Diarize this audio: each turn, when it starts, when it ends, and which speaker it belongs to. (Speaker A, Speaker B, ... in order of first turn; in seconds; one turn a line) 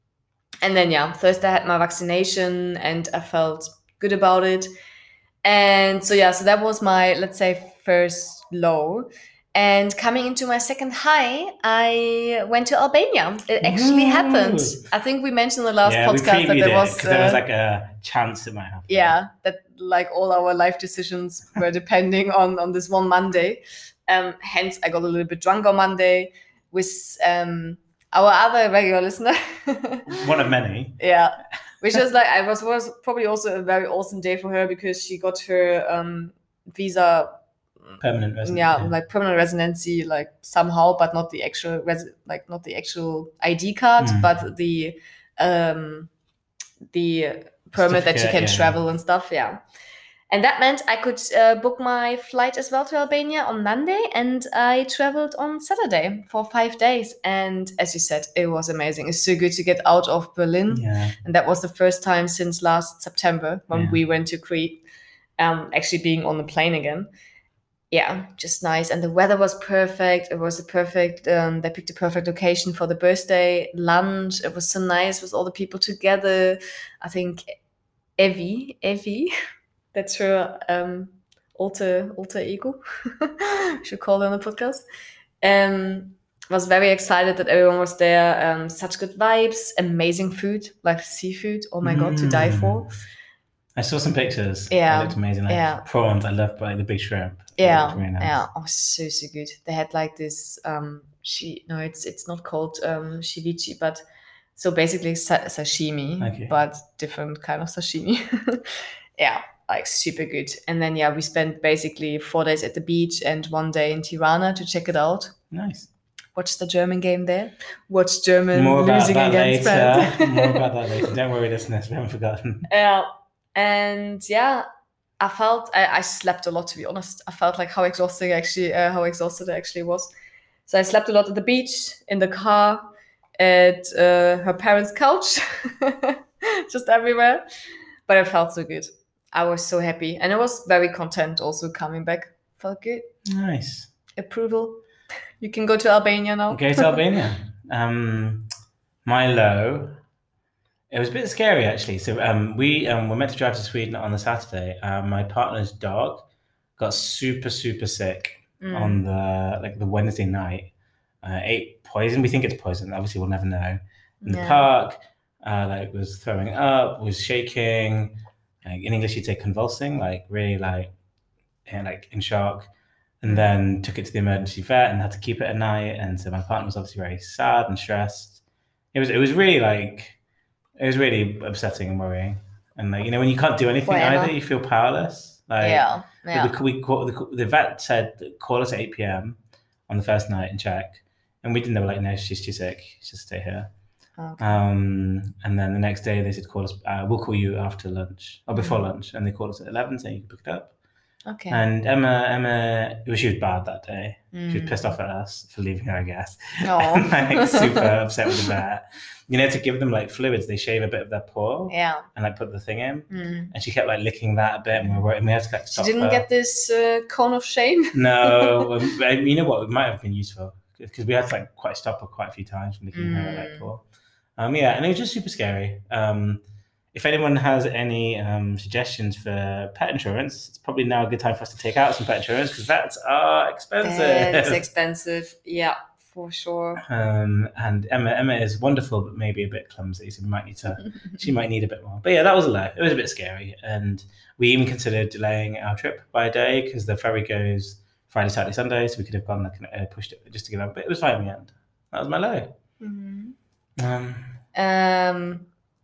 Speaker A: 0.6-4.7
Speaker A: 5.4-17.4
Speaker B: 13.6-14.8
Speaker B: 15.8-19.2
Speaker A: 18.9-30.2
Speaker B: 30.1-31.0
Speaker A: 31.0-46.1
Speaker B: 38.0-38.9
Speaker B: 44.0-44.3
Speaker A: 46.9-49.6
Speaker B: 47.8-48.8
Speaker A: 50.3-64.8
Speaker B: 60.7-61.2
Speaker B: 63.7-64.0
Speaker A: 65.4-67.1
Speaker A: 67.9-77.5
Speaker A: 78.2-79.3
Speaker A: 79.9-84.8
Speaker A: 85.4-92.9
Speaker B: 91.8-92.9
Speaker B: 93.8-98.4
Speaker A: 94.7-95.8
Speaker A: 97.6-104.0
Speaker A: 104.6-115.3
Speaker B: 106.2-106.5
Speaker B: 115.5-115.9
Speaker A: 116.3-121.0
Speaker B: 118.5-122.7
Speaker A: 122.7-124.7
Speaker A: 125.2-130.1
Speaker A: 130.7-137.5
Speaker A: 138.1-143.1
Speaker B: 143.2-143.9
Speaker A: 144.2-144.8
Speaker A: 145.4-147.0
Speaker B: 146.5-148.5
Speaker B: 149.1-150.0
Speaker B: 150.9-156.2
Speaker B: 156.8-160.7
Speaker A: 158.6-159.0
Speaker B: 161.2-170.9
Speaker A: 164.2-164.7
Speaker B: 171.7-172.7
Speaker B: 173.2-178.4
Speaker B: 178.9-180.2
Speaker B: 180.8-193.7
Speaker A: 183.9-184.3
Speaker A: 185.6-186.5
Speaker A: 194.2-194.6
Speaker B: 194.4-200.7
Speaker A: 201.3-201.6
Speaker B: 201.5-216.3
Speaker A: 204.3-204.8
Speaker A: 206.6-208.3
Speaker A: 211.7-212.1
Speaker A: 213.1-213.5
Speaker A: 215.7-218.7
Speaker B: 217.9-223.8
Speaker A: 222.9-223.7
Speaker B: 224.4-234.6
Speaker A: 233.8-236.8
Speaker B: 236.8-252.5
Speaker A: 252.8-253.4
Speaker B: 253.8-254.4
Speaker A: 254.6-255.5